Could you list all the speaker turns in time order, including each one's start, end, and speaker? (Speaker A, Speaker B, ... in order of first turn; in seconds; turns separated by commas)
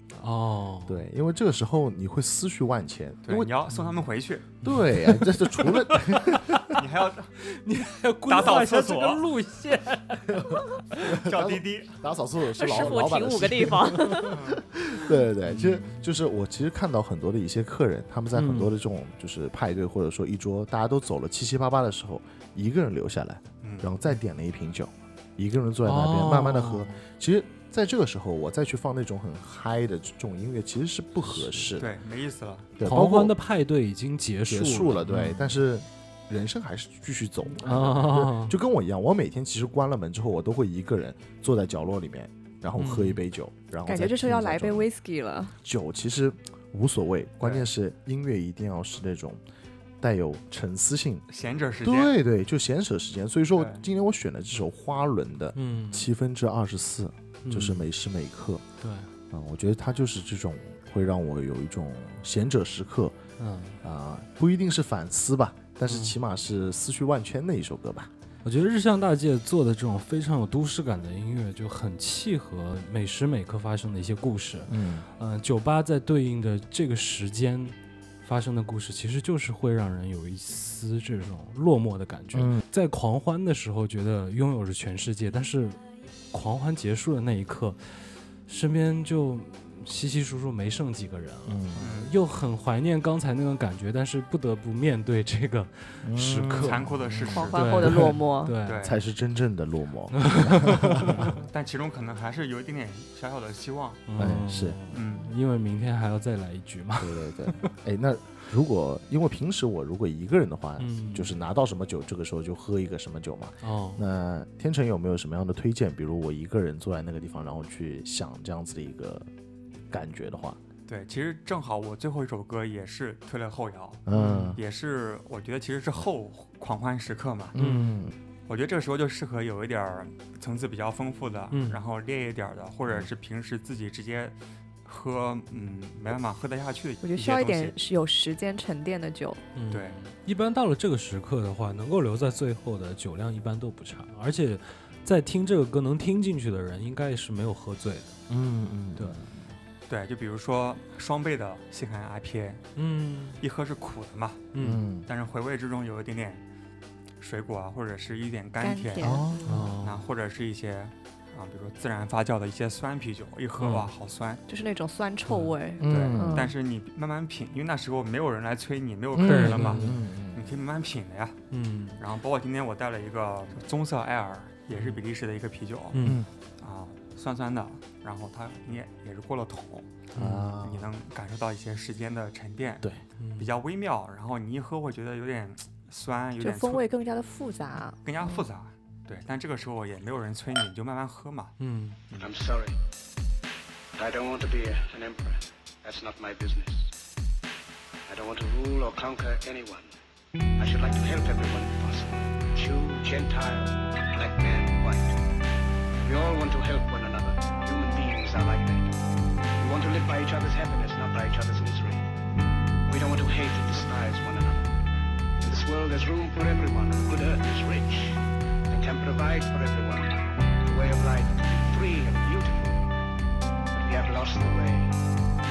Speaker A: 0.2-1.0, Speaker B: 0.9-3.5, Speaker C: 3.2-4.5, Speaker B: 4.6-6.8, Speaker A: 4.6-6.4, Speaker C: 6.8-7.3, Speaker A: 7.5-11.1, Speaker C: 8.3-9.2, Speaker B: 10.3-31.9, Speaker C: 11.2-11.9, Speaker D: 12.5-14.4, Speaker A: 18.3-18.7, Speaker C: 23.6-23.9, Speaker A: 25.8-27.0, Speaker A: 31.3-31.7, Speaker C: 31.8-32.7, Speaker B: 32.8-33.4, Speaker A: 32.8-35.5, Speaker B: 34.5-44.9, Speaker A: 37.5-38.5, Speaker A: 42.8-43.2, Speaker D: 43.9-45.5, Speaker B: 45.6-49.4, Speaker C: 47.4-47.7, Speaker B: 50.0-51.2, Speaker C: 51.3-52.2, Speaker B: 51.8-58.6, Speaker C: 53.6-53.8, Speaker A: 55.6-56.1, Speaker A: 57.4-57.9, Speaker A: 58.8-59.1, Speaker B: 59.3-63.2, Speaker A: 63.4-63.8, Speaker B: 63.8-68.1, Speaker A: 65.9-66.2, Speaker A: 68.4-85.8, Speaker B: 74.7-75.1, Speaker B: 82.3-82.6, Speaker A: 86.3-96.8, Speaker B: 91.5-91.9, Speaker C: 91.8-92.2, Speaker B: 96.0-98.1, Speaker C: 96.6-97.9, Speaker D: 97.3-98.5, Speaker A: 97.5-98.9, Speaker C: 98.7-99.0, Speaker B: 98.8-101.2, Speaker A: 100.2-101.4, Speaker C: 101.4-104.0, Speaker A: 104.1-107.7, Speaker B: 104.2-104.8, Speaker C: 104.9-105.3, Speaker B: 107.0-119.3, Speaker A: 110.8-111.4, Speaker A: 113.6-114.0, Speaker B: 119.9-120.6, Speaker C: 120.9-127.5, Speaker B: 124.1-124.6, Speaker A: 124.1-124.5, Speaker B: 127.5-128.2, Speaker A: 127.6-128.0, Speaker C: 128.5-137.8, Speaker A: 131.5-131.8, Speaker D: 137.0-139.4, Speaker A: 139.6-148.2, Speaker C: 139.7-140.0, Speaker B: 148.3-149.4, Speaker A: 149.0-149.2, Speaker C: 149.9-152.7, Speaker A: 152.8-153.4, Speaker C: 153.4-154.4, Speaker A: 154.5-154.8, Speaker B: 154.6-155.1, Speaker C: 155.1-156.4, Speaker C: 157.2-159.1, Speaker D: 158.6-159.7, Speaker B: 159.0-159.7, Speaker A: 159.5-160.0, Speaker C: 159.8-164.4, Speaker A: 163.6-163.9, Speaker D: 164.5-166.5, Speaker A: 165.3-165.5, Speaker B: 165.8-166.4, Speaker C: 165.9-171.4, Speaker B: 169.2-170.5, Speaker A: 169.2-170.0, Speaker A: 171.5-172.0, Speaker C: 172.0-176.1, Speaker A: 175.9-176.2, Speaker B: 176.0-176.3, Speaker C: 176.6-179.9, Speaker A: 180.2-180.5, Speaker B: 180.2-180.9, Speaker C: 180.6-182.8, Speaker A: 183.2-183.5, Speaker C: 183.4-186.9, Speaker D: 186.4-188.4, Speaker C: 188.1-191.5, Speaker A: 191.6-192.0, Speaker E: 192.2-192.8, Speaker E: 193.9-196.9, Speaker E: 198.1-199.9, Speaker E: 200.6-205.2, Speaker E: 206.0-209.0, Speaker E: 209.6-212.1, Speaker E: 212.9-214.8, Speaker E: 215.4-218.1, Speaker E: 218.7-222.9, Speaker E: 223.7-224.9